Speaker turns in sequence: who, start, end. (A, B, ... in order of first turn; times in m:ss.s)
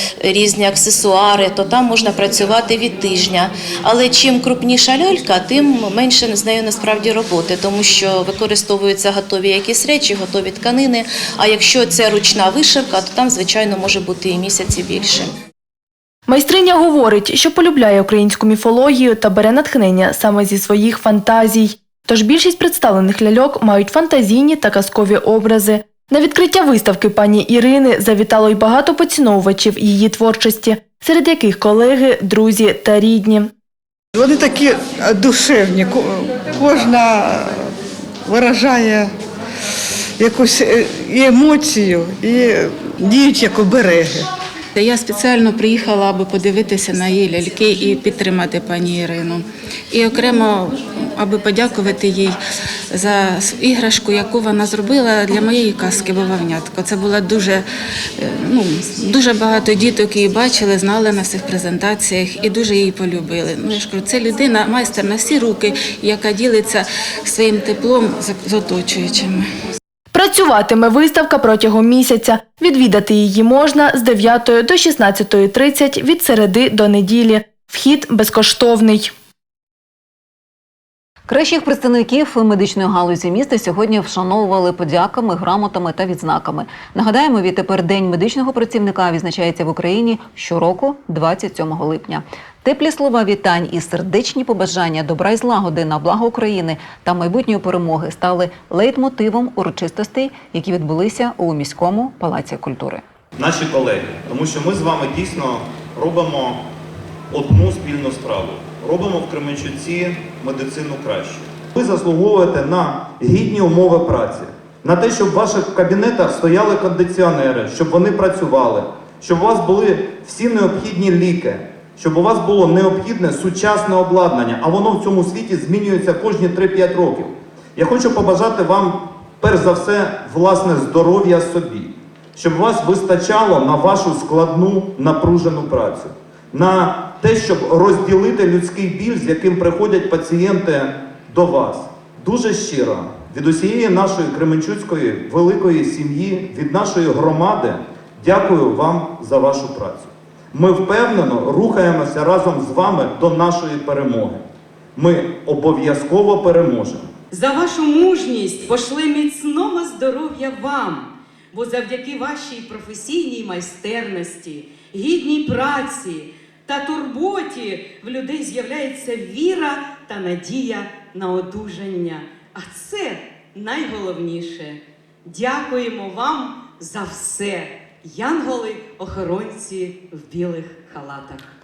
0:00.2-0:15.3 A
0:16.3-0:33.5 B
0:34.2-0:36.0 C
0:36.6-0:37.4 C
0:38.3-0:39.1 C
0:40.2-0:44.2 C
0:44.8-0:52.4 D
0:52.9-0:57.6 D
0:58.2-1:09.5 D
1:10.1-1:19.1 B
1:21.3-1:43.0 E
1:43.4-1:46.6 F
1:47.3-2:34.4 F
2:35.0-2:37.1 F
2:37.3-3:01.4 G